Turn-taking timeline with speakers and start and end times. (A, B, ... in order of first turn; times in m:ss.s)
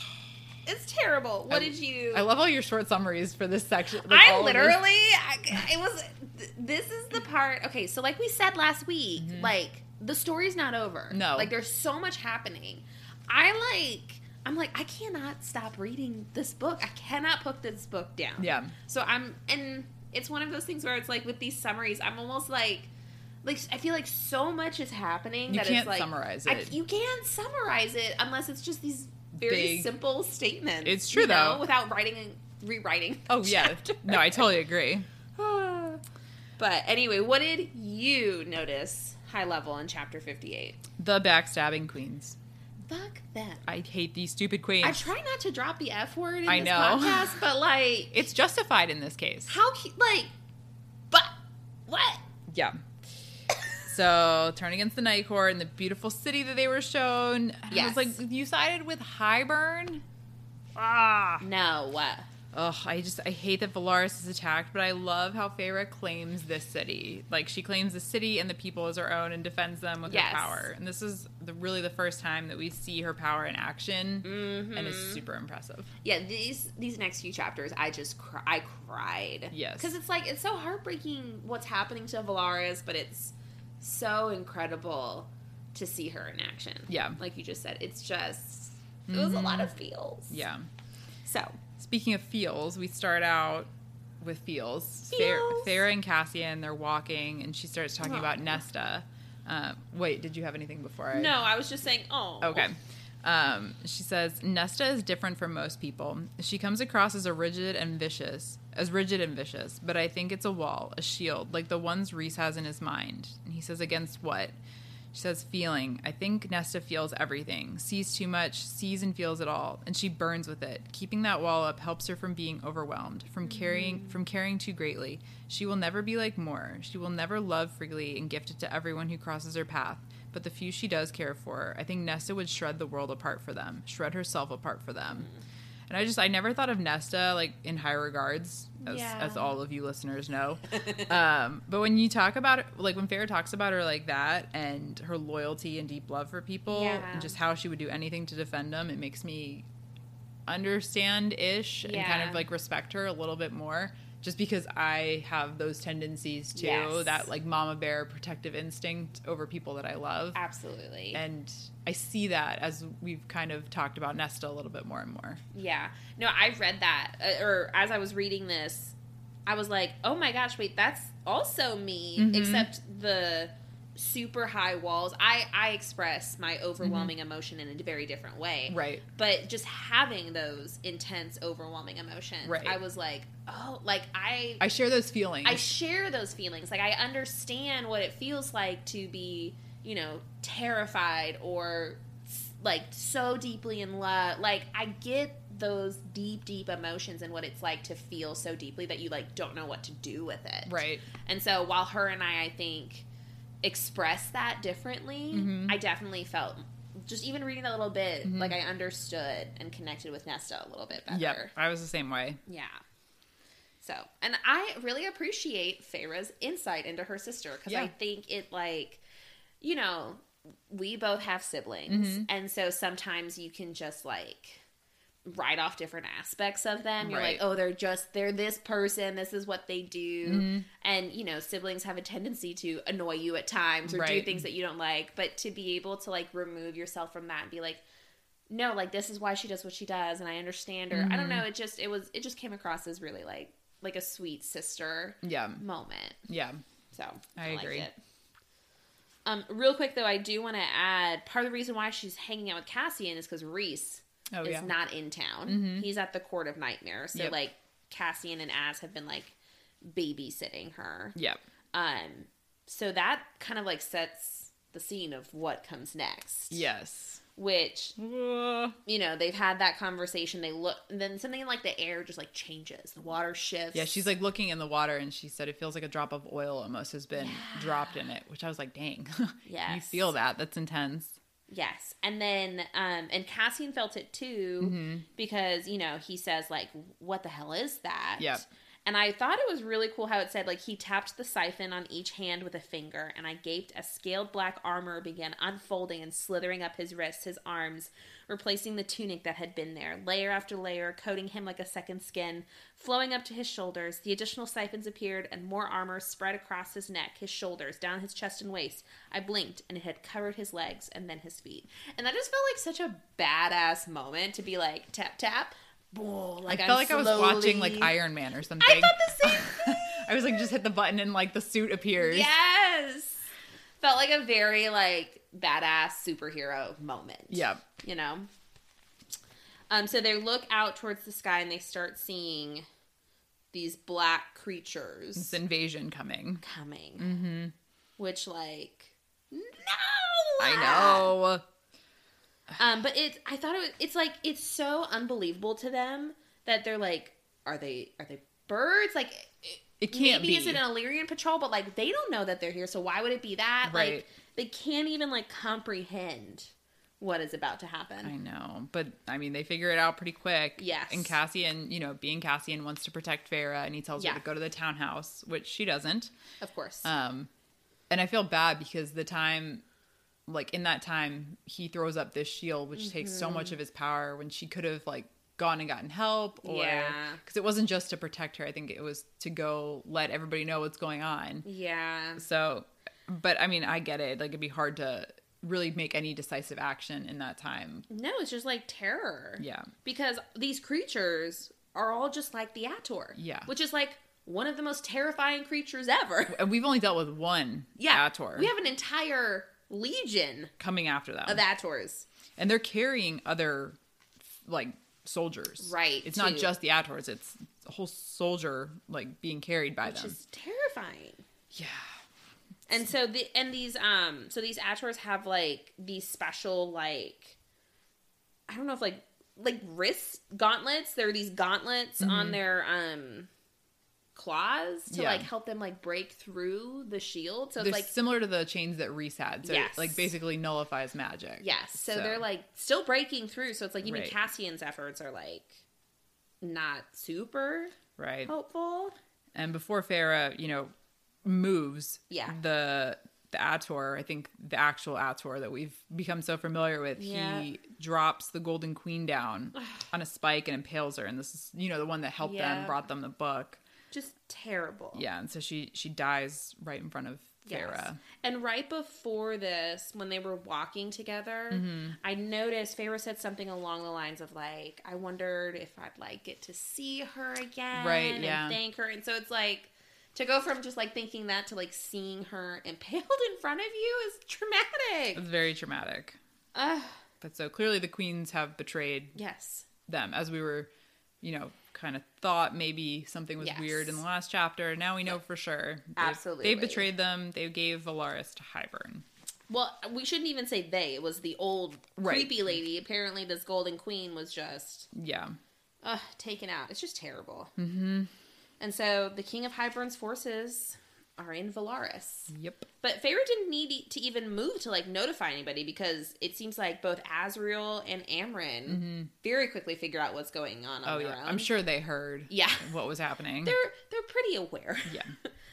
0:00.7-0:02.3 A
0:01.5-0:04.8 B
0:04.0-0:22.9 A
0:09.2-0:09.5 B
0:11.1-0:11.5 B
0:18.4-0:18.8 B
0:23.4-0:34.5 A
0:25.5-0:26.8 B
0:29.4-0:29.9 B
0:30.8-0:31.6 B
0:33.3-0:35.1 B
0:35.4-0:36.0 A
0:36.6-0:40.8 A
0:41.0-0:42.4 B
0:42.9-0:43.7 A
0:43.7-0:45.0 B
0:44.8-0:48.3 A
0:46.5-0:47.4 B
0:48.1-0:49.5 B
0:49.5-0:50.3 A
0:51.9-0:52.2 A
0:52.5-0:52.8 B
0:53.8-1:00.0 B
0:57.7-0:58.2 A
1:00.8-1:01.4 B
1:01.4-1:02.3 A
1:02.5-1:15.9 B
1:10.1-1:10.7 A
1:14.2-1:15.2 A
1:16.0-1:30.4 A
1:19.5-1:19.9 B
1:26.9-1:27.2 B
1:29.1-1:29.7 B
1:30.3-1:30.6 B
1:31.2-1:31.6 A
1:31.8-1:33.7 B
1:34.2-1:41.3 B
1:35.1-1:35.8 A
1:38.0-1:38.6 A
1:41.1-1:42.7 A
1:42.4-1:54.5 B
1:55.1-2:15.3 B
2:03.5-2:04.2 A
2:15.9-2:29.6 B
2:18.8-2:19.6 A
2:20.8-2:21.1 A
2:26.7-2:27.4 A
2:30.5-2:40.4 B
2:31.8-2:32.4 A
2:36.5-2:37.3 A
2:40.4-2:41.2 A
2:41.1-2:45.4 B
2:45.5-2:49.0 A
2:49.5-3:04.6 A
2:52.2-2:52.7 B
2:56.8-2:57.1 B
2:58.7-2:59.0 B
3:02.4-3:02.8 B
3:04.6-3:05.7 B
3:05.4-3:23.1 A
3:20.7-3:21.1 B
3:23.6-3:31.5 A
3:25.3-3:25.8 B
3:28.2-3:28.6 B
3:31.1-3:32.4 B
3:32.5-3:32.8 A
3:33.8-3:39.0 A
3:39.6-3:44.6 A
3:41.9-3:42.3 B
3:45.3-3:57.8 A
3:47.0-3:47.4 B
3:50.2-3:50.7 B
3:53.9-3:54.4 B
3:58.5-4:06.2 A
4:00.9-4:01.4 B
4:05.2-4:05.6 B
4:06.3-4:06.6 B
4:06.9-4:08.0 A
4:07.4-4:07.9 B
4:09.3-4:21.2 A
4:14.3-4:14.7 B
4:15.5-4:15.9 B
4:21.7-4:26.7 A
4:26.5-4:27.2 B
4:27.4-4:28.0 A
4:28.0-4:28.8 B
4:28.9-4:33.9 A
4:33.7-4:41.2 B
4:37.2-4:38.0 A
4:39.4-4:40.1 A
4:41.5-5:17.9 A
4:44.6-4:45.1 B
4:48.2-4:48.5 B
5:16.5-5:22.3 B
5:18.6-5:20.1 A
5:22.0-5:23.3 A
5:23.8-5:28.3 A
5:27.3-5:27.6 B
5:29.7-5:32.7 A
5:33.5-5:35.4 A
5:35.2-5:36.4 B
5:36.4-5:37.2 A
5:37.0-5:37.5 B
5:38.0-5:41.1 A
5:40.4-5:41.4 B
5:42.6-5:58.1 A
5:49.8-5:50.6 B
5:53.6-5:54.0 B
5:58.0-6:06.1 B
6:00.6-6:01.2 A
6:04.0-6:04.2 A
6:06.4-6:06.9 A
6:06.8-6:07.3 B
6:07.9-6:09.6 B
6:10.3-6:21.5 B
6:12.8-6:13.6 A
6:16.4-6:17.2 A
6:21.4-6:22.2 A
6:22.2-6:27.9 B
6:27.9-6:36.4 A
6:29.4-6:29.7 B
6:33.2-6:33.5 B
6:36.3-6:38.5 B
6:37.8-6:40.5 A
6:40.6-6:41.4 B
6:41.3-6:42.1 A
6:42.4-6:43.8 B
6:44.4-6:50.2 B
6:45.6-6:46.5 A
6:49.8-6:51.2 A
6:51.5-6:51.9 B
6:52.7-6:57.4 A
6:58.5-7:03.3 A
7:02.0-7:02.4 B
7:04.2-7:07.9 A
7:04.9-7:05.3 B
7:07.6-7:12.2 B
7:09.4-7:10.1 A
7:11.4-7:15.6 A
7:13.8-7:14.2 B
7:16.4-7:17.8 A
7:18.0-7:18.3 B
7:18.3-7:19.0 A
7:19.4-7:20.7 B
7:21.2-7:33.6 B
7:22.1-7:22.4 A
7:27.0-7:27.5 A
7:29.6-7:29.8 A
7:32.2-7:32.8 A
7:33.9-7:35.0 A
7:34.9-7:38.0 B
7:37.4-7:55.2 A
7:41.5-7:42.0 B
7:47.7-7:48.6 B
7:55.2-7:56.2 B
7:56.6-7:57.0 A
7:57.2-7:59.2 B
7:59.2-7:59.7 A
7:59.9-8:00.7 B
8:01.2-8:09.0 B
8:03.4-8:04.0 A
8:06.0-8:06.9 A
8:09.5-8:14.9 A
8:12.0-8:12.6 B
8:14.9-8:15.4 B
8:15.8-8:17.5 A
8:17.6-8:18.1 B
8:18.6-8:31.5 A
8:22.3-8:22.7 B
8:28.7-8:29.1 B
8:30.8-8:33.6 B
8:32.3-8:32.8 A
8:33.4-8:35.0 A